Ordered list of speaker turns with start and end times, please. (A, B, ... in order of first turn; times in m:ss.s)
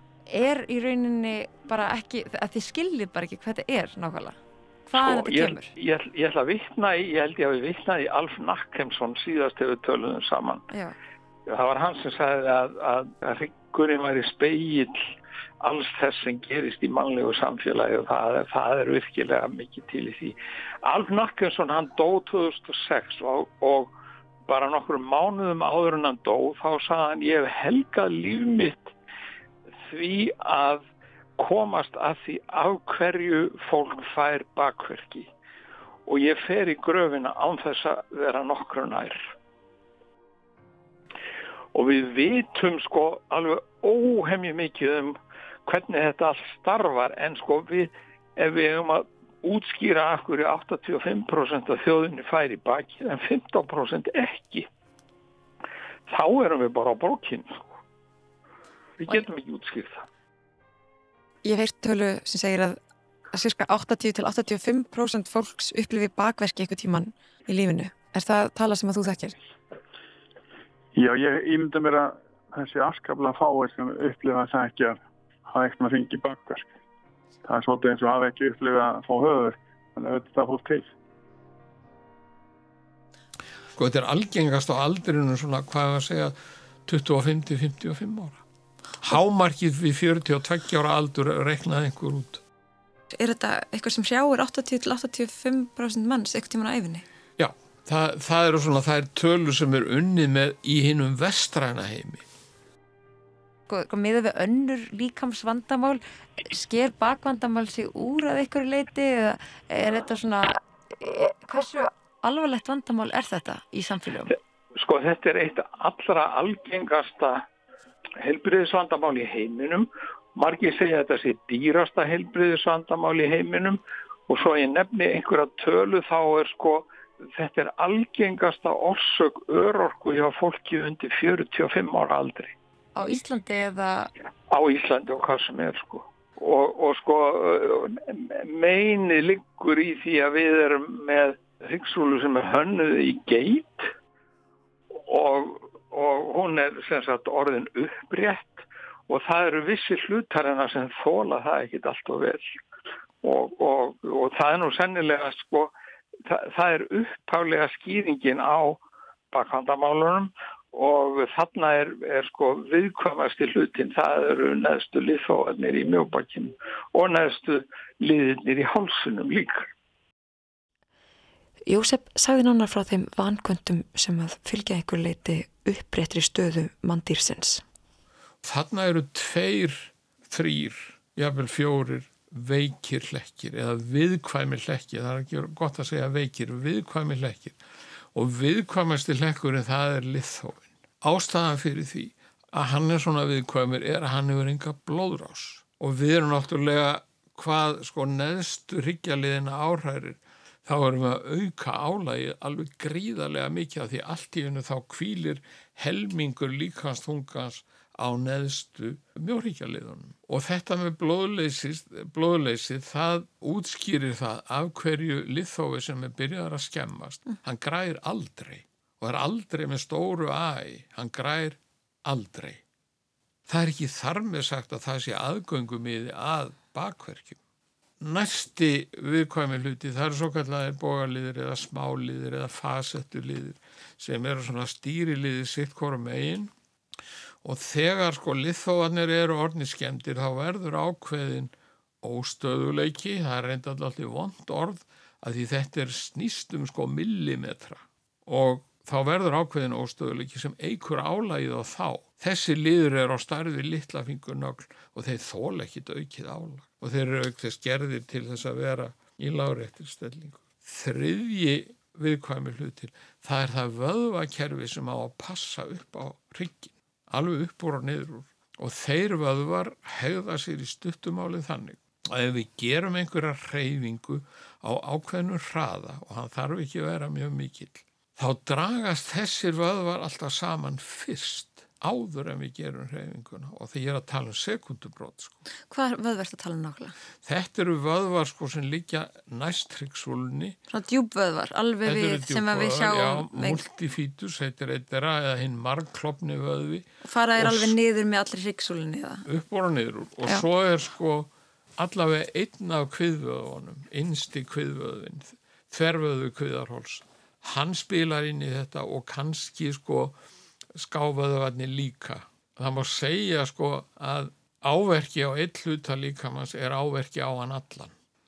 0:00.3-0:05.7 A
0:04.9-0:10.7 B
0:10.7-0:11.0 A
0:11.5-0:15.0 B
0:15.6-0:23.9 B
0:24.5-0:28.9 B
0:29.9-0:30.8 B
0:31.4-0:35.3 B
0:36.1-0:39.2 B
0:41.7-0:54.7 B
0:56.1-0:57.7 B
0:59.0-1:00.1 B
1:01.4-1:02.8 A
1:03.3-1:09.4 A
1:11.0-1:16.7 C
1:17.5-1:20.8 C
1:23.8-1:28.4 D
1:29.0-1:32.4 D
1:33.1-1:37.0 A
1:37.4-1:42.2 D
1:43.7-1:54.3 A
1:54.8-1:57.4 B
1:58.2-2:12.6 B
2:13.0-2:14.1 A
2:14.5-2:23.9 B
2:25.0-2:32.5 B
2:33.2-2:35.7 B
2:36.2-2:49.7 B
2:51.7-2:57.6 E
2:58.4-3:07.6 D
3:08.1-3:42.6 D
3:43.5-3:47.4 D
3:48.0-3:56.5 D
3:57.4-4:45.4 D
4:45.7-4:47.0 A
4:47.2-4:50.6 D
4:50.7-4:53.7 A
4:51.8-4:57.7 D
4:57.0-4:59.3 A
4:59.3-5:10.2 D
5:10.8-5:17.9 D